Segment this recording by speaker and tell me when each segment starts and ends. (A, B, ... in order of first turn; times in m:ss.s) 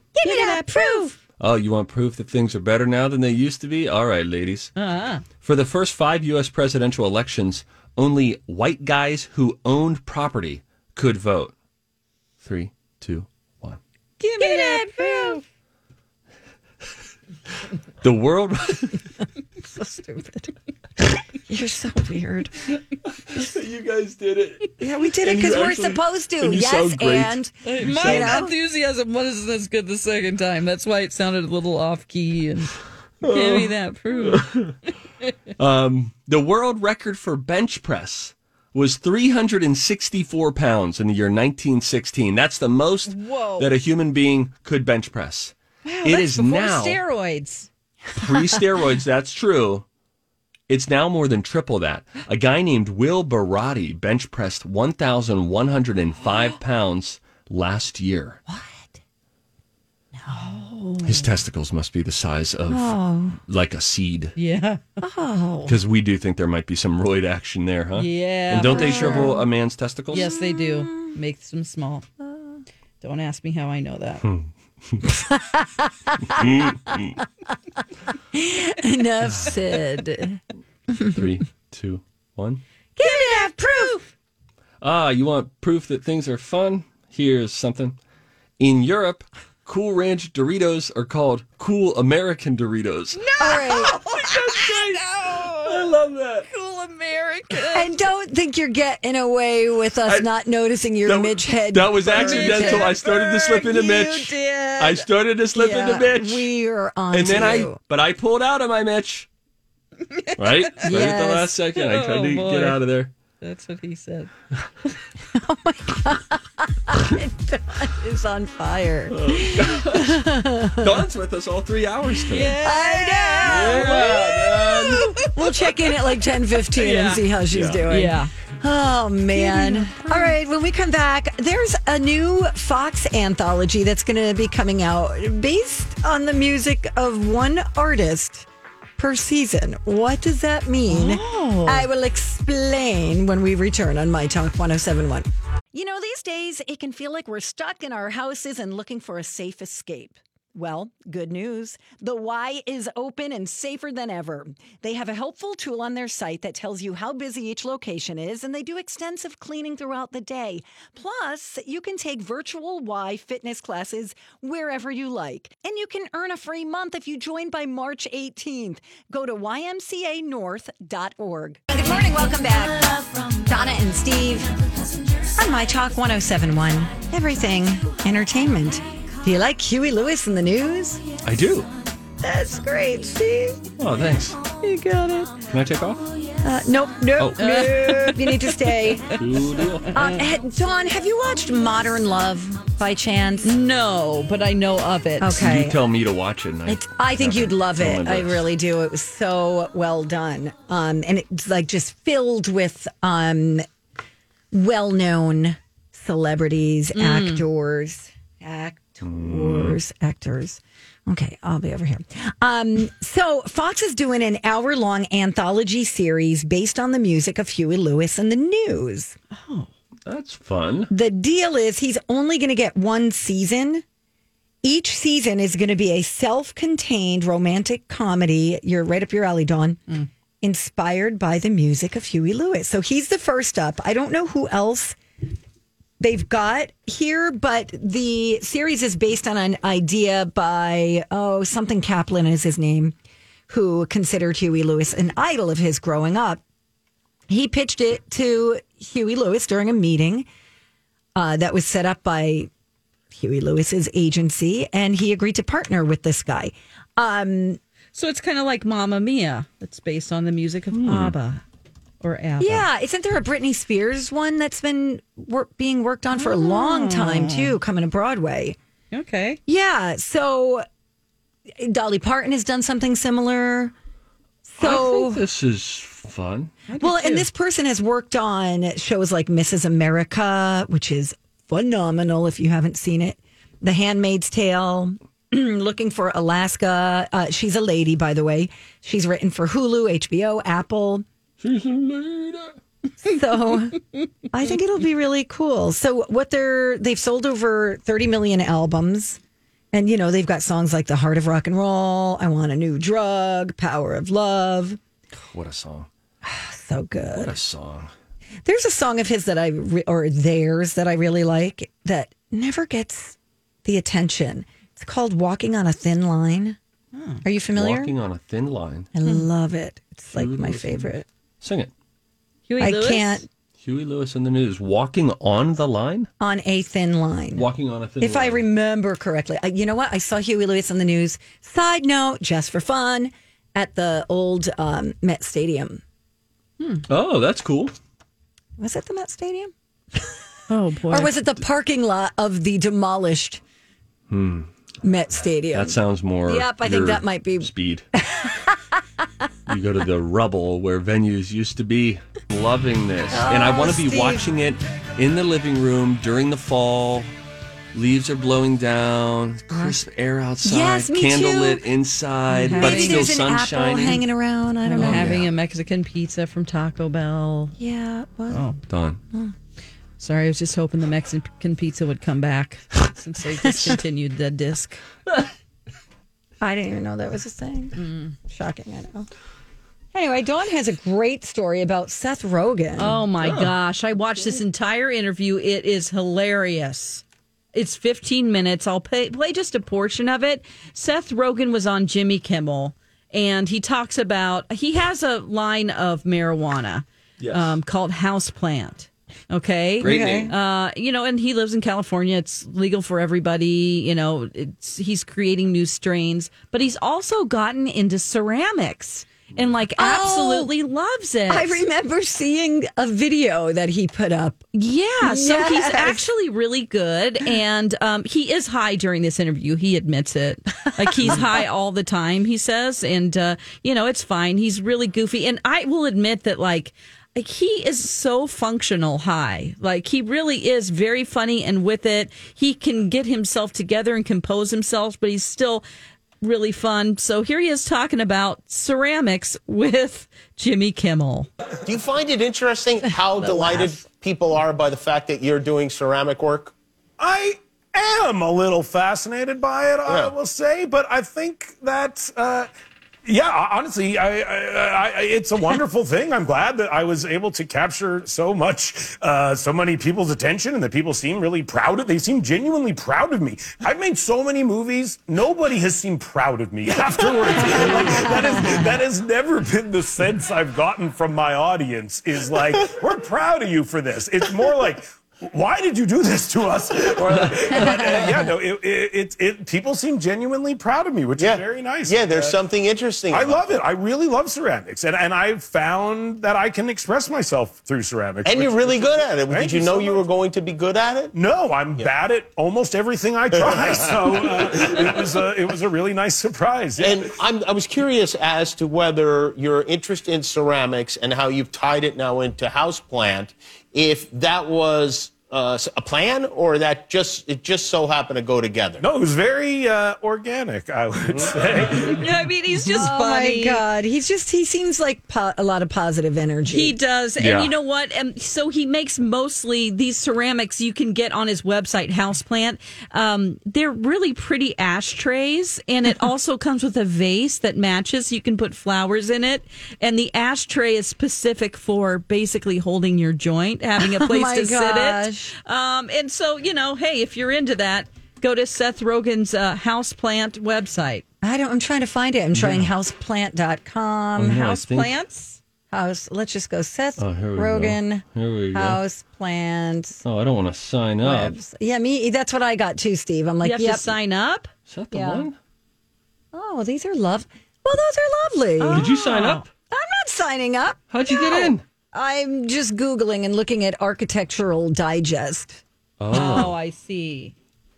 0:00.2-0:01.2 A
0:00.2-0:01.1 B
0:01.4-0:04.7 C
0:04.8-0:05.2 B
0:05.4-0:11.5 C
0:12.4-0:13.8 C
0:14.2-0:15.4 B
0:14.4-0:15.4 A
0:18.0-0:19.0 C
0:19.6-0:20.5 A
0:21.5-0:22.6 A
0:23.2-0:28.4 C
0:24.8-0:28.5 A
0:27.6-0:34.5 B
0:33.2-0:34.7 C
0:35.6-0:47.0 C
0:43.1-0:43.7 B
0:45.8-0:47.7 B
0:48.1-0:49.8 C
0:50.7-0:58.4 C
0:58.5-0:58.9 A
1:00.3-1:01.3 B
1:01.0-1:04.3 C
1:02.7-1:03.4 A
1:04.4-1:04.8 B
1:05.0-1:05.7 A
1:05.7-1:10.3 C
1:07.9-1:09.3 B
1:08.6-1:09.4 A
1:10.1-1:12.0 B
1:10.1-1:11.2 A
1:12.2-1:12.6 A
1:13.0-1:14.3 B
1:14.2-1:15.0 C
1:15.1-1:17.0 A
1:16.4-1:17.1 C
1:18.3-1:20.4 A
1:21.1-1:22.6 C
1:23.0-1:24.0 A
1:23.0-1:24.0 B
1:24.8-1:28.0 C
1:28.6-1:36.5 C
1:33.2-1:35.8 B
1:33.4-1:34.0 A
1:36.5-1:37.9 B
1:37.7-1:43.0 A
1:41.0-1:46.5 C
1:42.1-1:45.0 B
1:45.5-1:47.8 A
1:47.1-1:49.3 C
1:50.2-1:50.9 B
1:50.4-1:53.1 C
1:50.8-1:51.6 A
1:51.7-1:52.8 B
1:53.4-1:54.3 B
1:55.3-2:01.0 A
1:59.1-2:00.2 C
2:00.7-2:02.6 C
2:02.3-2:05.3 B
2:02.6-2:54.6 A
2:03.4-2:05.2 C
2:06.8-2:07.2 B
2:07.5-2:07.9 C
2:07.9-2:08.3 B
2:09.4-2:10.2 B
2:20.9-2:21.8 B
2:55.2-3:01.0 A
3:01.2-3:01.7 C
3:02.2-3:03.7 A
3:03.8-3:04.4 C
3:04.6-3:05.3 B
3:05.5-3:06.1 C
3:06.4-3:09.2 A
3:07.4-3:08.6 B
3:09.1-3:09.9 C
3:09.9-3:13.5 A
3:13.4-3:15.3 B
3:15.2-3:15.8 A
3:15.3-3:18.4 C
3:16.7-3:23.6 A
3:24.5-3:39.2 A
3:26.9-3:27.4 B
3:29.0-3:29.8 C
3:39.3-3:39.7 B
3:40.0-3:40.9 C
3:40.9-3:43.8 A
3:44.6-3:49.8 A
3:50.4-3:55.0 A
3:56.0-4:03.0 A
4:03.5-4:06.4 A
4:07.3-4:10.3 A
4:11.1-4:12.5 A
4:13.1-4:17.6 A
4:17.9-4:21.4 B
4:20.7-4:21.1 C
4:22.0-4:22.6 B
4:22.4-4:28.6 A
4:26.1-4:27.5 B
4:28.9-4:29.4 B
4:29.5-4:30.6 A
4:31.6-4:33.7 A
4:34.4-4:35.2 A
4:34.6-4:36.5 C
4:36.7-4:37.3 B
4:36.8-4:51.0 A
4:51.4-4:52.6 C
4:53.0-4:59.2 A
4:59.7-5:04.8 A
5:05.1-5:05.9 C
5:06.2-5:07.3 A
5:07.1-5:07.9 C
5:08.4-5:16.6 A
5:16.9-5:17.2 B
5:17.2-5:17.9 A
5:17.5-5:18.9 C
5:18.9-5:21.0 A
5:20.1-5:21.7 C
5:22.5-5:23.2 B
5:22.6-5:23.3 A
5:23.6-5:26.1 C
5:26.2-5:27.5 A
5:27.3-5:28.4 C
5:28.0-5:35.8 A
5:36.9-5:37.7 C
5:38.6-5:40.2 A
5:40.5-5:41.1 B
5:40.9-5:43.4 A
5:44.1-5:44.5 C
5:44.8-5:48.8 A
5:45.5-5:47.8 C
5:49.5-5:57.1 C
5:53.1-5:54.2 A
5:57.7-6:04.0 C
5:59.5-5:59.8 A
6:00.4-6:01.6 A
6:02.4-6:03.1 B
6:02.4-6:05.2 A
6:04.6-6:07.6 B
6:04.8-6:05.3 C
6:07.6-6:08.4 A
6:08.3-6:08.6 B
6:08.7-6:09.0 C
6:10.0-6:14.8 B
6:16.4-6:17.8 A
6:17.8-6:18.1 B
6:18.3-6:19.1 A
6:19.9-6:23.0 A
6:22.8-6:27.0 B
6:23.2-6:23.5 C
6:27.5-6:51.6 B
6:37.2-6:37.6 C
6:39.8-6:40.3 C
6:39.8-6:40.3 A
6:49.8-6:50.5 A
6:51.3-6:54.4 A
6:54.5-7:15.6 B
6:55.0-6:56.0 A
7:01.0-7:01.2 A
7:16.2-7:21.3 B
7:21.6-7:26.5 D
7:23.1-7:23.8 A
7:27.0-7:32.5 E
7:29.8-7:30.1 D
7:33.0-8:02.4 E
7:47.6-7:48.3 A
8:01.2-8:03.6 D
8:03.1-8:10.1 E
8:08.2-8:11.2 D
8:11.1-8:17.0 E
8:13.3-8:15.1 D
8:16.8-8:28.8 D
8:28.8-8:32.0 E
8:31.9-8:33.6 B
8:32.7-8:36.8 A
8:36.5-9:01.0 B
8:37.2-8:37.5 C
8:53.8-8:55.3 A
9:01.2-9:04.4 A
9:02.3-9:02.7 C
9:04.2-9:04.9 C
9:04.2-9:05.4 B
9:05.7-9:10.0 A
9:07.0-9:08.8 C
9:10.0-9:11.4 C
9:11.0-9:13.9 A
9:13.4-9:14.5 B
9:14.7-9:15.4 C
9:14.9-9:15.3 A
9:16.3-9:18.9 A
9:18.6-9:19.4 B
9:18.7-9:19.5 C
9:19.7-9:25.6 A
9:20.9-9:21.6 C
9:26.0-9:26.5 C
9:26.1-9:27.3 B
9:26.1-9:26.5 A